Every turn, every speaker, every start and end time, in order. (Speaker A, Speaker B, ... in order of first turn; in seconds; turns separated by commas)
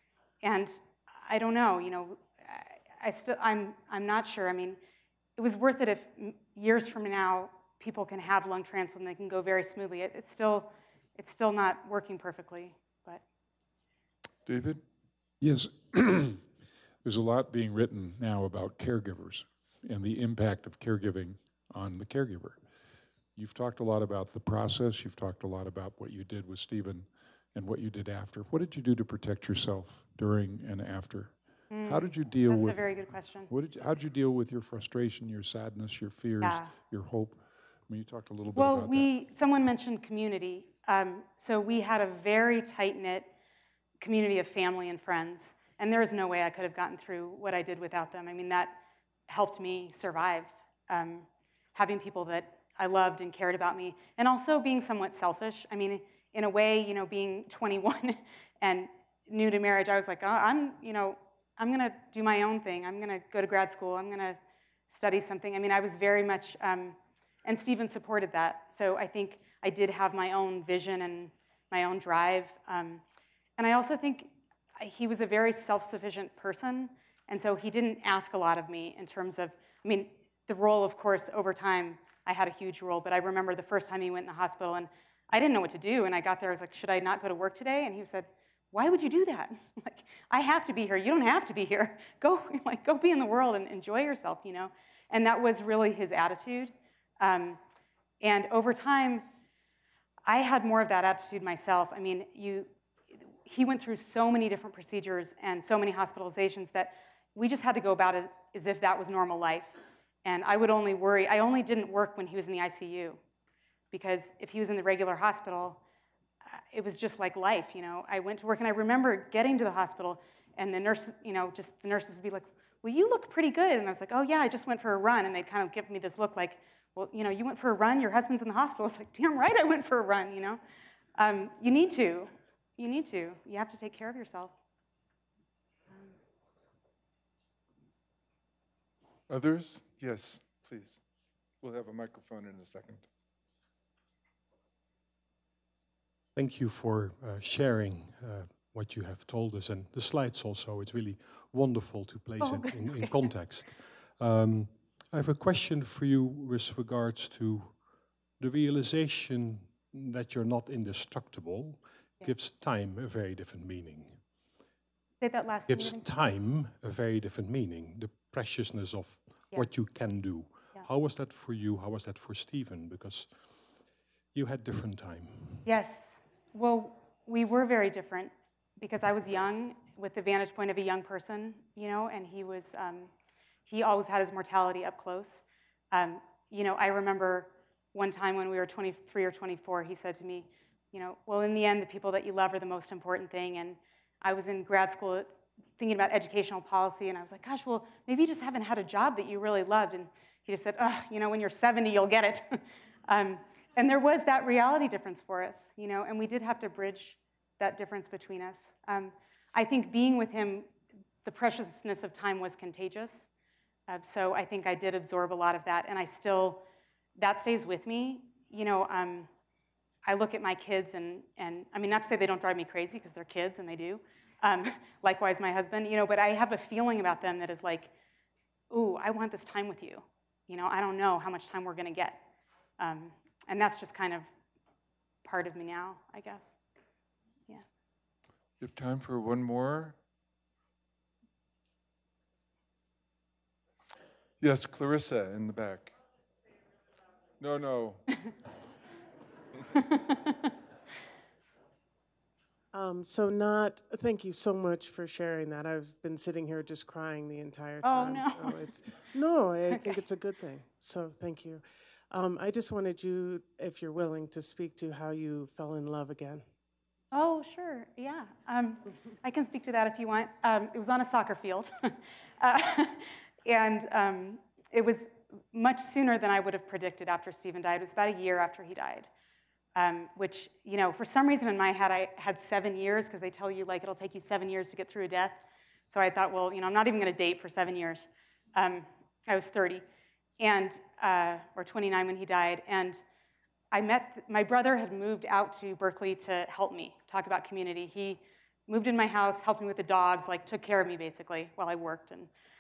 Speaker A: 0.4-4.8, Speaker A: 5.4-13.2, Speaker B: 14.4-14.8, Speaker C: 15.4-16.4, Speaker C: 17.0-22.6, Speaker C: 23.3-39.1, Speaker A: 31.7-33.5, Speaker A: 36.4-36.7, Speaker A: 38.5-43.3, Speaker A: 44.0-73.0, Speaker A: 73.6-97.6, Speaker A: 98.2-99.2, Speaker A: 100.2-102.7, Speaker A: 103.4-113.2, Speaker A: 113.9-115.8, Speaker A: 116.5-130.6, Speaker A: 131.2-134.5, Speaker B: 139.3-141.0, Speaker B: 141.6-143.1, Speaker D: 146.3-157.9, Speaker A: 152.4-153.2, Speaker D: 158.4-164.2, Speaker A: 165.2-166.1, Speaker D: 165.7-173.5, Speaker D: 174.3-175.7, Speaker A: 175.6-183.1, Speaker A: 183.7-210.7, Speaker A: 211.2-213.3, Speaker A: 213.9-216.6, Speaker A: 217.2-219.3, Speaker A: 220.0-227.9, Speaker A: 228.7-232.2, Speaker A: 232.8-234.3, Speaker A: 235.2-236.6, Speaker B: 238.6-239.9, Speaker B: 244.4-245.9, Speaker B: 247.4-248.0, Speaker E: 252.7-266.4, Speaker A: 257.8-258.6, Speaker A: 267.1-279.1, Speaker A: 279.8-289.8, Speaker A: 290.4-293.0, Speaker A: 293.7-302.3